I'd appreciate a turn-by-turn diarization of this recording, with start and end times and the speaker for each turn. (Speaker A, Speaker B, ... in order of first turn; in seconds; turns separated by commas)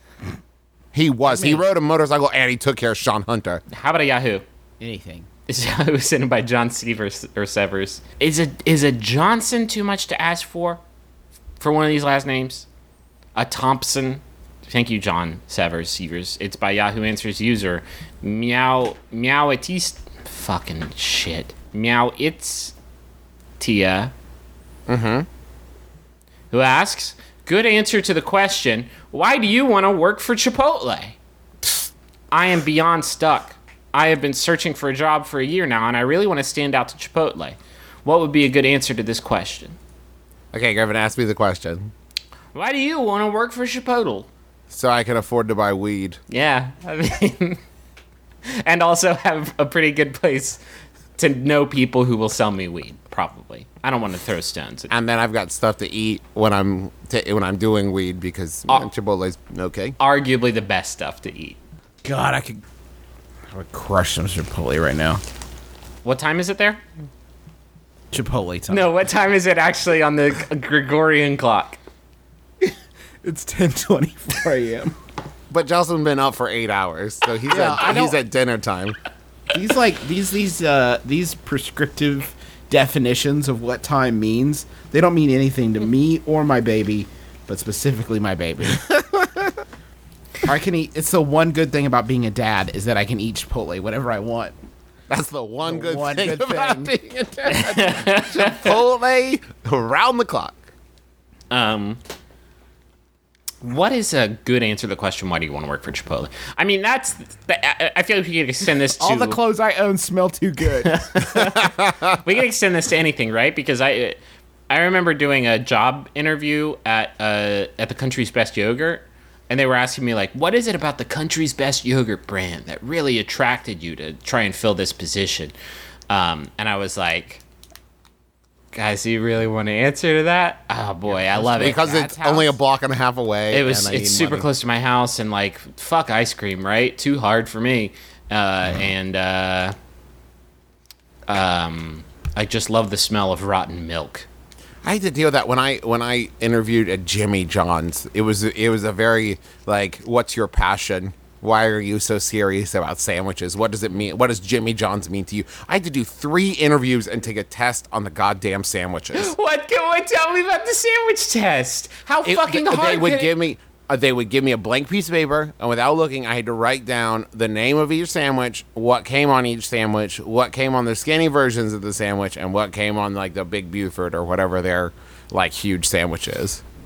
Speaker A: 0.9-3.6, Speaker B: 1.2-1.7, Speaker C: 3.7-4.4, Speaker B: 4.8-5.3, Speaker C: 5.5-10.8, Speaker C: 11.6-12.7, Speaker C: 13.4-22.7, Speaker C: 23.6-24.1, Speaker A: 24.9-25.3, Speaker C: 26.5-31.2, Speaker C: 32.3-39.8, Speaker A: 40.5-41.9, Speaker C: 42.5-44.3, Speaker A: 44.7-46.2, Speaker C: 46.3-47.6, Speaker C: 48.5-50.6, Speaker C: 51.2-54.9, Speaker A: 54.9-60.0, Speaker C: 60.0-61.6, Speaker B: 62.0-62.6, Speaker B: 63.5-65.2, Speaker C: 66.0-66.8, Speaker B: 68.1-68.9, Speaker C: 68.7-71.8, Speaker B: 73.2-75.0, Speaker A: 75.5-79.0, Speaker B: 77.5-78.2, Speaker B: 79.5-88.9, Speaker B: 90.4-94.5, Speaker A: 95.1-100.6, Speaker B: 95.6-97.8, Speaker C: 97.5-98.8, Speaker C: 101.5-102.0, Speaker C: 103.6-109.4, Speaker B: 109.0-111.1, Speaker C: 110.8-125.5, Speaker A: 111.7-112.1, Speaker C: 126.1-127.4, Speaker C: 128.7-131.9, Speaker B: 131.1-132.6, Speaker A: 131.6-134.5, Speaker C: 133.5-139.8, Speaker C: 141.3-144.3, Speaker A: 144.8-159.3, Speaker C: 159.1-163.3, Speaker A: 162.2-176.6